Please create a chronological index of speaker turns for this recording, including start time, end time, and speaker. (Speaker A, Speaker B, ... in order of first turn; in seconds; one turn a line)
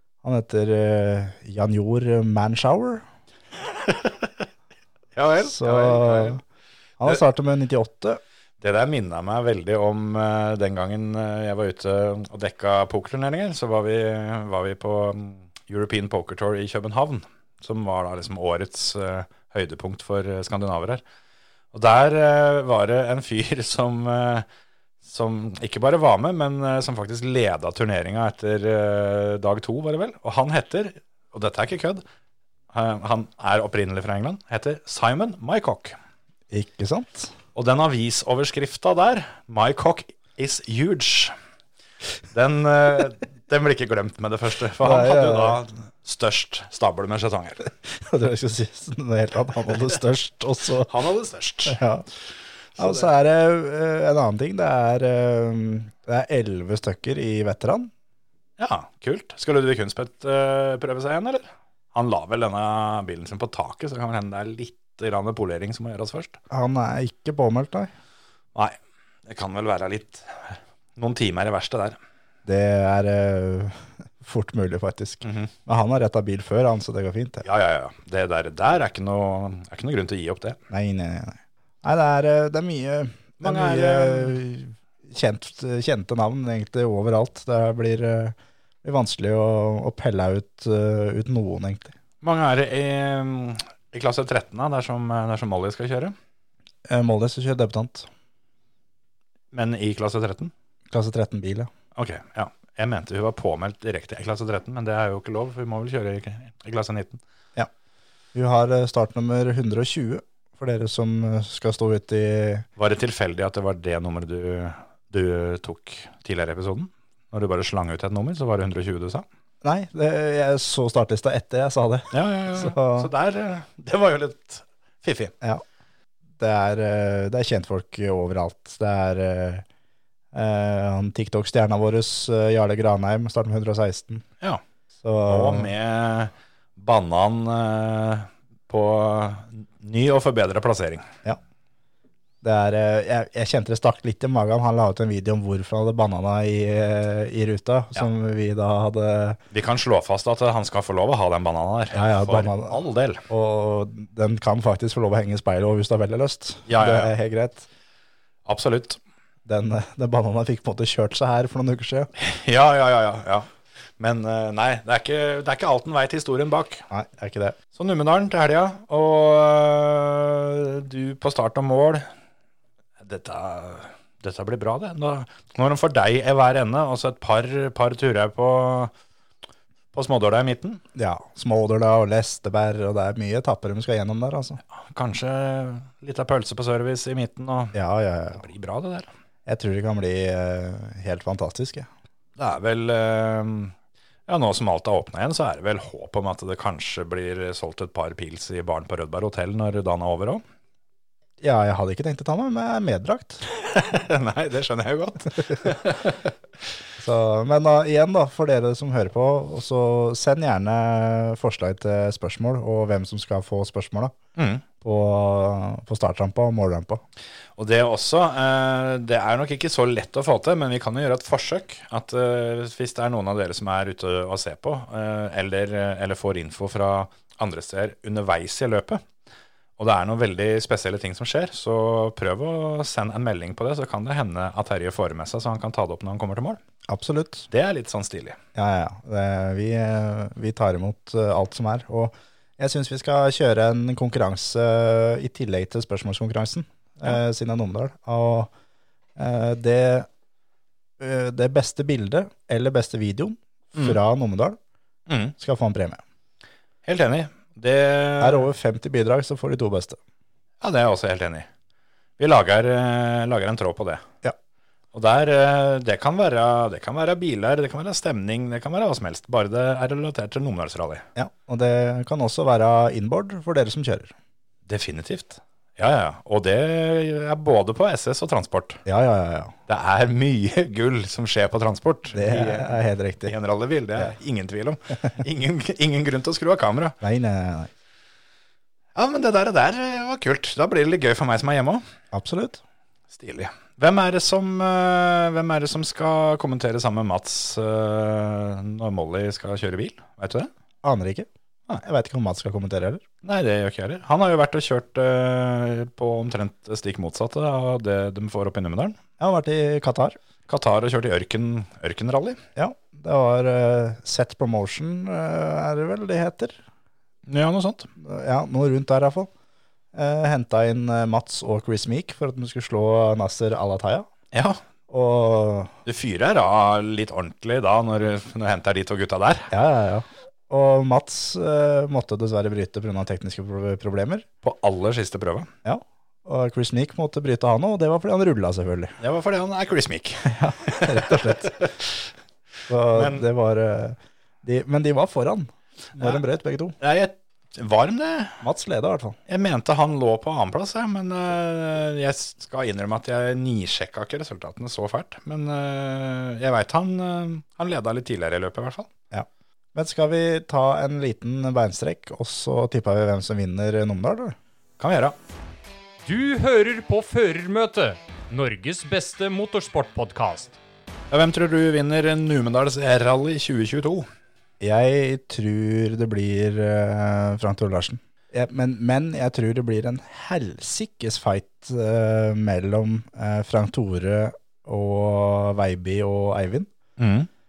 Speaker A: 0.2-3.0
Speaker B: 3.8-4.3
Speaker B: 5.2-6.4
Speaker A: 5.5-6.4
Speaker A: 7.0-8.2
Speaker B: 8.6-21.0
Speaker B: 21.7-24.5
Speaker B: 25.0-32.0
Speaker B: 32.7-36.0
Speaker A: 36.5-37.3
Speaker B: 37.5-41.3
Speaker B: 42.3-47.7
Speaker A: 44.8-45.6
Speaker A: 47.8-50.9
Speaker B: 50.9-51.8
Speaker A: 51.7-52.0
Speaker A: 52.8-57.9
Speaker B: 52.8-53.0
Speaker B: 58.6-66.4
Speaker A: 66.5-67.9
Speaker B: 68.5-72.0
Speaker A: 72.5-77.5
Speaker B: 75.2-75.5
Speaker B: 77.4-80.6
Speaker A: 80.7-91.9
Speaker B: 83.4-84.4
Speaker B: 92.2-96.2
Speaker A: 96.9-98.1
Speaker B: 99.5-100.5
Speaker A: 100.9-101.7
Speaker B: 102.0-107.2
Speaker A: 108.3-112.7
Speaker B: 112.8-119.2
Speaker A: 119.6-123.1
Speaker B: 122.1-125.3
Speaker A: 126.4-129.7
Speaker A: 130.3-134.2
Speaker A: 135.0-135.7
Speaker B: 135.3-141.1
Speaker A: 142.4-149.4
Speaker B: 149.5-153.2
Speaker A: 151.9-157.7
Speaker B: 156.7-157.1
Speaker B: 158.5-159.0
Speaker A: 159.5-162.1
Speaker B: 162.2-166.9
Speaker A: 166.9-167.6
Speaker B: 167.7-172.1
Speaker B: 173.0-178.9
Speaker B: 179.9-180.8
Speaker A: 180.9-184.6
Speaker B: 184.8-187.8
Speaker A: 187.7-188.4
Speaker B: 188.3-189.1
Speaker A: 189.5-191.9
Speaker B: 192.4-193.7
Speaker B: 194.3-200.4
Speaker A: 201.4-203.4
Speaker B: 203.5-206.3
Speaker A: 207.0-214.1
Speaker B: 214.4-214.6
Speaker A: 214.8-217.0
Speaker B: 217.6-229.0
Speaker B: 229.8-236.6
Speaker A: 236.9-237.5
Speaker B: 237.5-238.4
Speaker A: 238.6-248.5
Speaker A: 249.2-250.1
Speaker A: 251.0-254.6
Speaker B: 255.1-255.3
Speaker A: 255.4-256.0
Speaker B: 256.9-258.5
Speaker A: 258.2-260.0
Speaker B: 260.6-261.5
Speaker B: 262.2-264.0
Speaker B: 264.9-271.1
Speaker A: 271.2-274.1
Speaker B: 274.7-278.8
Speaker A: 278.9-279.6
Speaker B: 279.7-287.0
Speaker A: 282.1-283.3
Speaker A: 287.0-287.7
Speaker B: 288.9-291.8
Speaker A: 292.1-292.6
Speaker B: 293.1-300.5
Speaker A: 300.8-301.3
Speaker A: 301.8-303.0
Speaker B: 303.2-309.0
Speaker A: 309.2-310.2
Speaker B: 310.5-312.4
Speaker A: 312.6-316.6
Speaker B: 317.3-317.9
Speaker A: 318.0-319.3
Speaker A: 319.9-324.1
Speaker B: 324.3-324.6
Speaker A: 324.9-325.7
Speaker B: 325.9-329.5
Speaker A: 329.5-334.2
Speaker B: 334.4-335.5
Speaker A: 335.6-339.0
Speaker B: 339.0-342.1
Speaker A: 340.3-341.5
Speaker A: 342.7-346.8
Speaker B: 342.9-343.3
Speaker B: 346.0-346.2
Speaker B: 346.8-348.4
Speaker A: 348.4-349.2
Speaker B: 349.3-358.9
Speaker A: 359.1-364.4
Speaker B: 364.8-365.1
Speaker C: 366.1-370.6
Speaker B: 371.1-374.1
Speaker A: 374.6-386.7
Speaker B: 387.0-387.3